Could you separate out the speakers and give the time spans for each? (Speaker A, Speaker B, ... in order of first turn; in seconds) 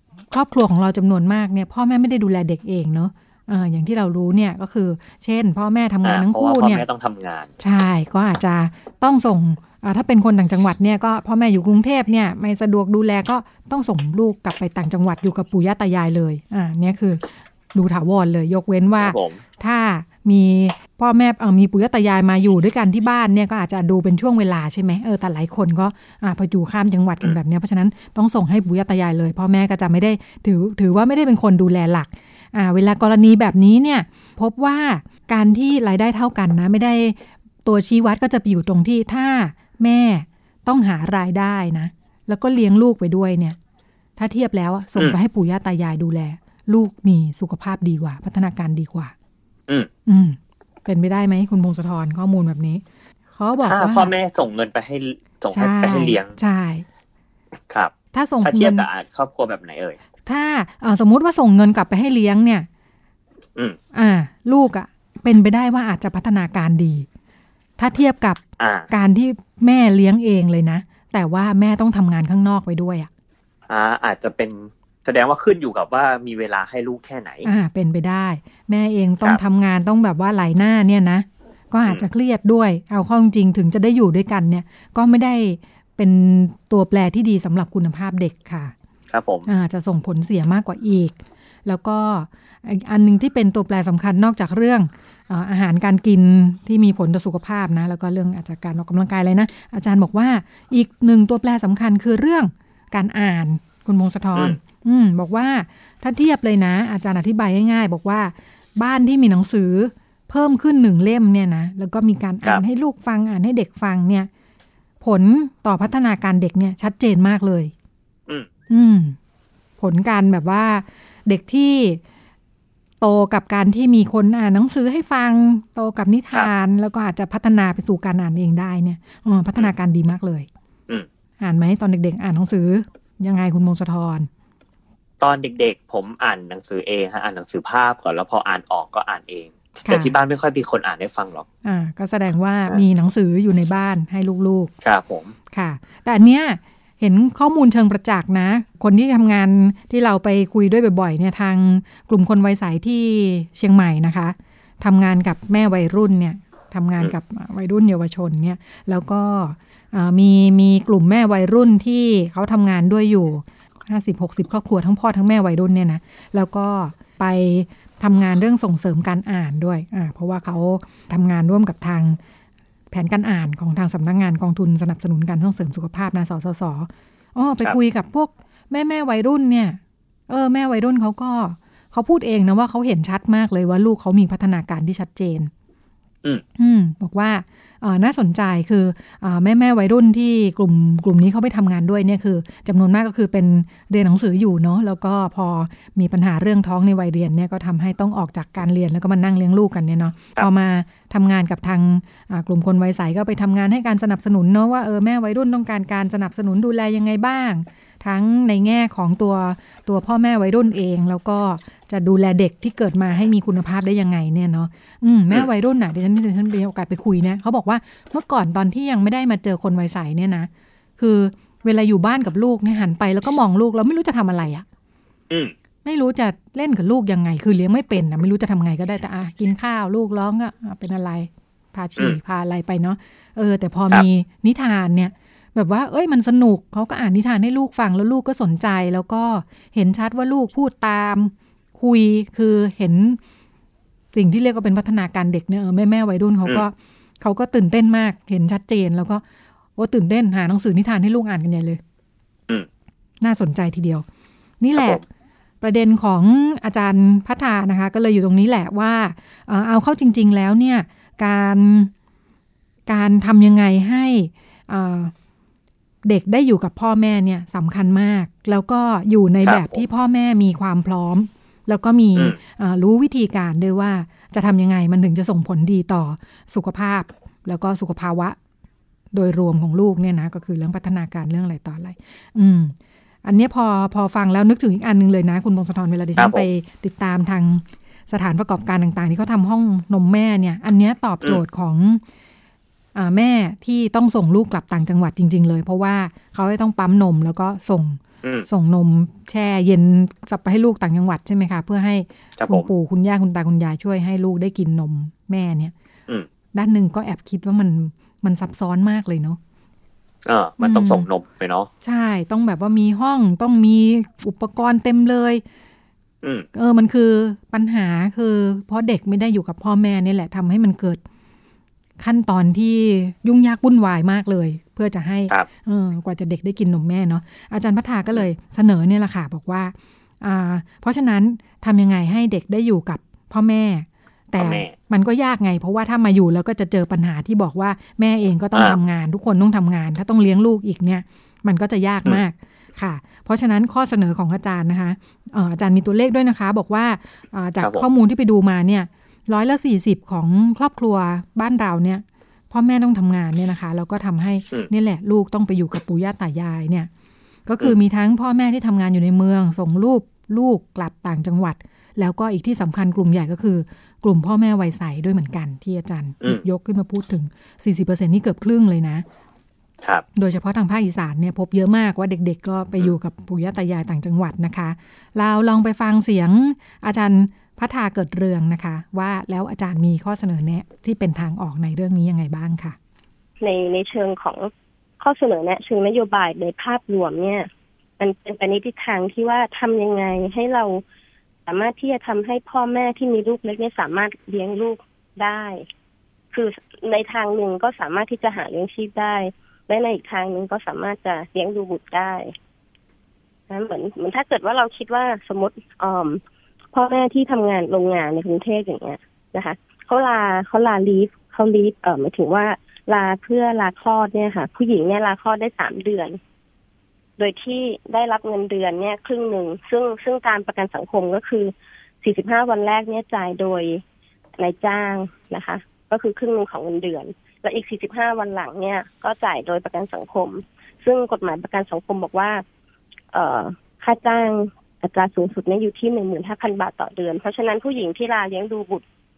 Speaker A: 0.3-6.8, 7.6-17.2, 17.7-43.6, 44.2-49.1, 50.1-52.8, 53.4-54.1, 55.5-56.9, 58.1-58.9, 60.3-62.7, 63.9-67.1, 67.8-73.1, 77.5-88.7, 89.5-91.1, 91.7-114.3, 115.0-117.7, 118.7-119.2, 119.8-122.0, 123.0-130.5, 131.4-134.3, 139.9-140.1, 141.7-144.7, 145.5-172.2, 172.9-185.5, 186.6-224.7, 225.8-243.2, 244.1-249.2, 249.8-251.8, 253.2-254.1, 254.6-255.0, 255.6-261.9, 262.9-265.1, 266.1-278.4, 279.1-282.7, 283.2-292.0, 292.9-305.7, 306.5-309.4, 310.6-311.1, 311.8-315.4, 316.5-321.0, 322.0-356.9, 357.5-369.0, 370.2-382.8
Speaker B: 6.0-7.5, 19.0-19.4, 53.6-56.4, 58.4-60.0, 68.6-68.9, 73.7-77.5, 89.1-89.5, 135.2-141.5, 144.8-145.3, 269.4-269.8, 286.2-286.5, 302.4-302.7, 310.3-311.7, 334.4-334.7, 347.6-347.9
Speaker C: 383.4-384.5, 385.0-387.5, 388.0-390.8, 391.5-395.6, 396.3-402.3, 403.5-406.2, 406.7-416.2, 417.2-421.5, 422.0-423.8, 424.4-432.4, 433.1-438.8